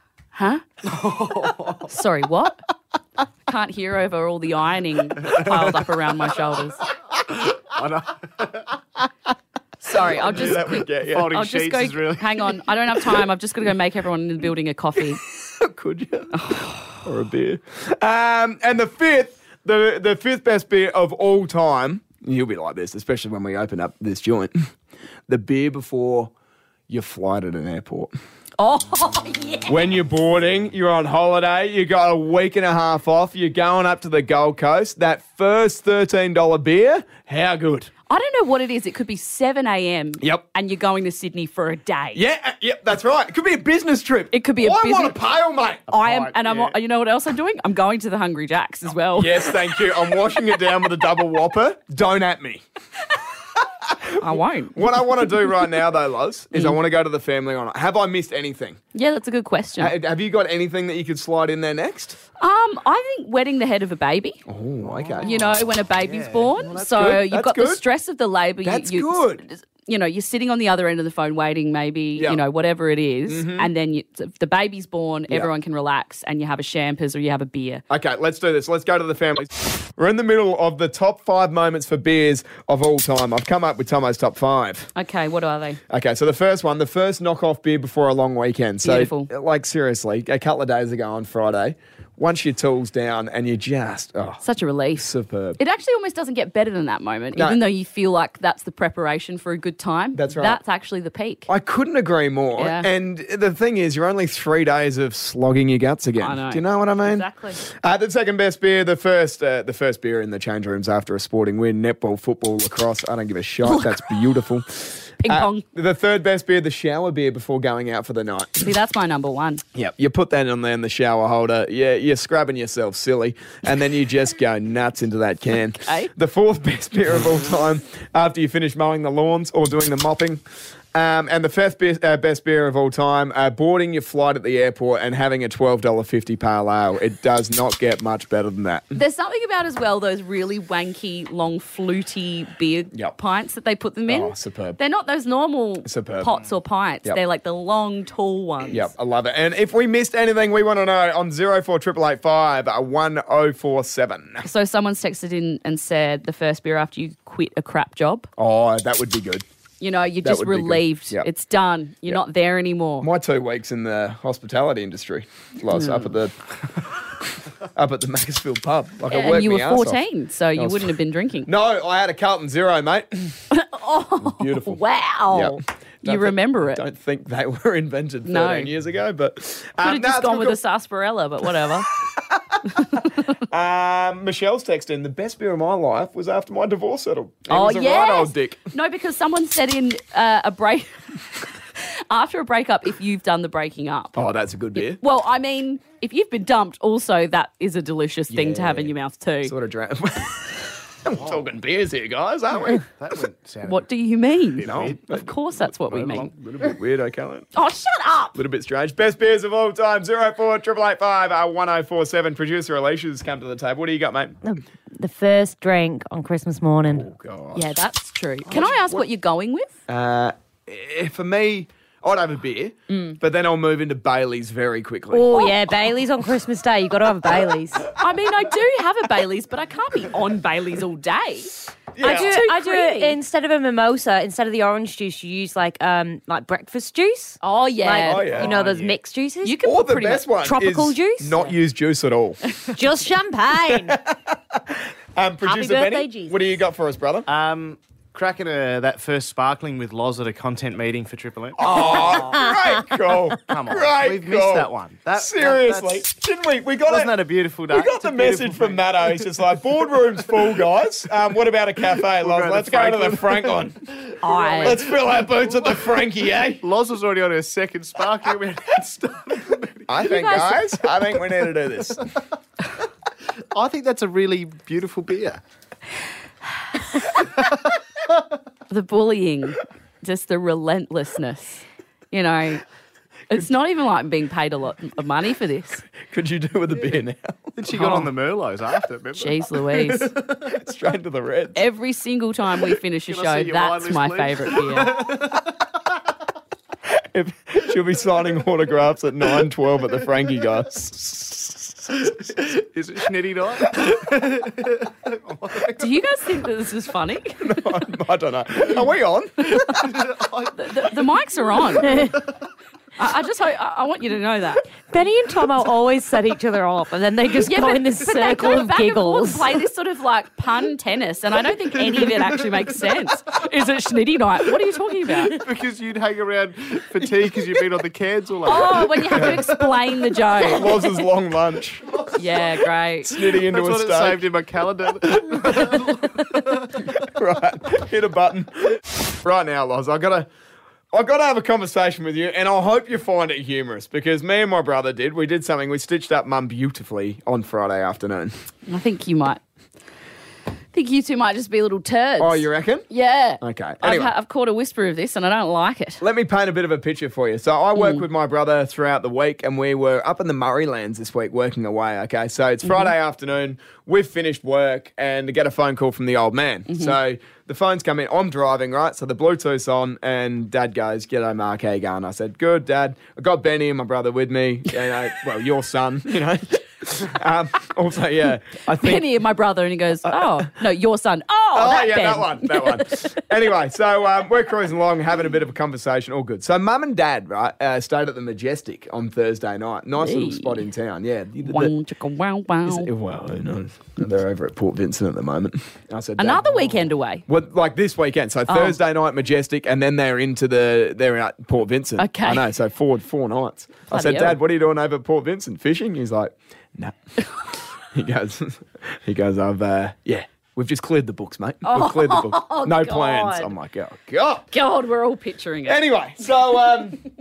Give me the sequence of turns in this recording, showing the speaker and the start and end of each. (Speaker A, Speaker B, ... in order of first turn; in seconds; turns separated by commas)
Speaker A: 0.3-0.6, Speaker B: 0.8-1.9, Speaker A: 1.9-2.6, Speaker A: 3.5-6.9, Speaker B: 5.3-5.7, Speaker B: 7.7-8.7, Speaker A: 9.8-15.2, Speaker C: 10.1-11.4, Speaker B: 11.0-12.6, Speaker C: 15.3-24.7, Speaker A: 16.3-17.0, Speaker C: 25.3-26.3, Speaker C: 26.9-28.1, Speaker A: 28.6-29.8, Speaker C: 29.7-37.9, Speaker A: 38.1-42.2, Speaker C: 42.1-45.9, Speaker A: 44.3-45.2, Speaker A: 45.9-50.1, Speaker B: 45.9-46.7, Speaker C: 49.1-52.6, Speaker C: 53.8-58.8, Speaker A: 54.2-55.5, Speaker A: 58.9-59.9, Speaker C: 59.8-62.2, Speaker A: 62.4-64.4, Speaker C: 64.5-65.4, Speaker B: 64.8-66.6, Speaker A: 65.2-77.8, Speaker C: 66.6-67.8, Speaker C: 68.6-69.4, Speaker C: 72.2-72.4, Speaker C: 73.3-73.7, Speaker C: 77.9-84.9, Speaker A: 84.9-85.8, Speaker C: 85.9-94.4, Speaker A: 88.8-89.3, Speaker A: 94.4-101.5, Speaker C: 95.0-95.6, Speaker C: 97.3-97.6, Speaker C: 100.1-100.6, Speaker C: 101.5-118.7, Speaker A: 102.6-102.9, Speaker A: 106.2-107.6, Speaker A: 113.7-114.0, Speaker A: 115.2-115.7, Speaker A: 118.6-119.6, Speaker C: 119.7-130.4, Speaker A: 125.8-126.1, Speaker C: 130.9-139.0, Speaker A: 138.9-148.9, Speaker C: 144.1-144.8, Speaker C: 145.8-146.4, Speaker C: 148.7-154.5, Speaker A: 154.4-158.3, Speaker C: 158.4-159.4, Speaker A: 159.8-163.1, Speaker C: 160.2-161.3, Speaker C: 163.0-166.3, Speaker A: 165.7-166.1, Speaker C: 167.6-170.0, Speaker A: 169.1-171.5, Speaker C: 170.5-170.9, Speaker C: 171.4-173.4, Speaker A: 173.5-176.8, Speaker C: 174.2-180.6, Speaker A: 178.2-178.7, Speaker A: 179.8-181.9, Speaker C: 182.1-188.6, Speaker A: 182.8-183.3, Speaker A: 187.5-191.0, Speaker A: 191.7-194.2, Speaker C: 194.1-195.0, Speaker A: 194.7-199.5, Speaker C: 198.3-203.2, Speaker B: 201.2-201.5, Speaker B: 202.9-203.9, Speaker A: 203.6-206.3, Speaker B: 204.5-205.0, Speaker C: 204.6-207.5, Speaker B: 205.9-206.4, Speaker A: 207.5-208.4, Speaker C: 208.3-214.4, Speaker D: 214.4-217.1, Speaker C: 216.9-217.8, Speaker A: 217.5-219.7, Speaker C: 218.5-219.0, Speaker C: 219.9-225.5, Speaker A: 222.9-223.2, Speaker D: 225.1-227.9, Speaker A: 227.9-233.2, Speaker C: 231.9-232.4, Speaker D: 232.0-239.6, Speaker A: 237.4-238.3, Speaker C: 238.0-238.5, Speaker B: 238.3-239.0, Speaker A: 239.4-240.3, Speaker C: 239.6-242.4, Speaker D: 240.4-241.4, Speaker D: 242.7-244.0, Speaker C: 243.7-247.3, Speaker D: 245.4-246.4, Speaker B: 247.3-252.4, Speaker C: 251.6-257.2, Speaker B: 253.4-256.0, Speaker B: 256.9-259.3, Speaker C: 257.7-264.0, Speaker B: 262.1-266.0, Speaker A: 264.2-264.8, Speaker C: 264.6-266.6, Speaker B: 266.6-270.3, Speaker C: 269.9-272.1, Speaker A: 270.0-270.6, Speaker B: 273.5-275.4, Speaker B: 277.1-277.4, Speaker A: 278.7-282.6, Speaker A: 283.3-285.9, Speaker C: 286.0-287.9, Speaker B: 287.6-290.5, Speaker A: 287.7-288.1, Speaker A: 289.1-290.1, Speaker C: 290.1-291.6, Speaker A: 291.5-295.0, Speaker B: 293.1-295.6, Speaker C: 296.9-302.1, Speaker B: 302.0-305.9, Speaker A: 305.7-307.5, Speaker C: 307.4-309.9, Speaker B: 309.6-312.2, Speaker A: 310.5-312.2, Speaker A: 313.0-314.7, Speaker D: 314.9-319.6, Speaker A: 317.4-325.4, Speaker B: 321.8-323.0, Speaker B: 325.2-330.2, Speaker A: 328.4-331.0, Speaker C: 329.1-329.4, Speaker C: 330.4-332.1, Speaker A: 332.1-333.2, Speaker C: 333.0-334.2, Speaker B: 333.3-337.0, Speaker C: 335.3-335.8, Speaker C: 336.8-340.3, Speaker C: 340.9-348.3, Speaker A: 348.7-349.4, Speaker A: 350.7-356.0, Speaker C: 352.2-352.9, Speaker C: 353.4-354.1, Speaker C: 356.0-379.1, Speaker A: 357.8-358.0, Speaker A: 366.7-366.9, Speaker A: 378.7-383.2, Speaker C: 380.0-380.5, Speaker C: 381.5-391.7, Speaker A: 390.0-390.6, Speaker A: 391.4-392.9, Speaker C: 392.6-406.9, Speaker A: 396.2-397.2, Speaker A: 398.5-398.8, Speaker A: 402.0-402.5, Speaker A: 403.9-404.4, Speaker C: 407.5-414.5, Speaker A: 411.6-413.5, Speaker A: 414.5-416.3, Speaker C: 415.6-417.0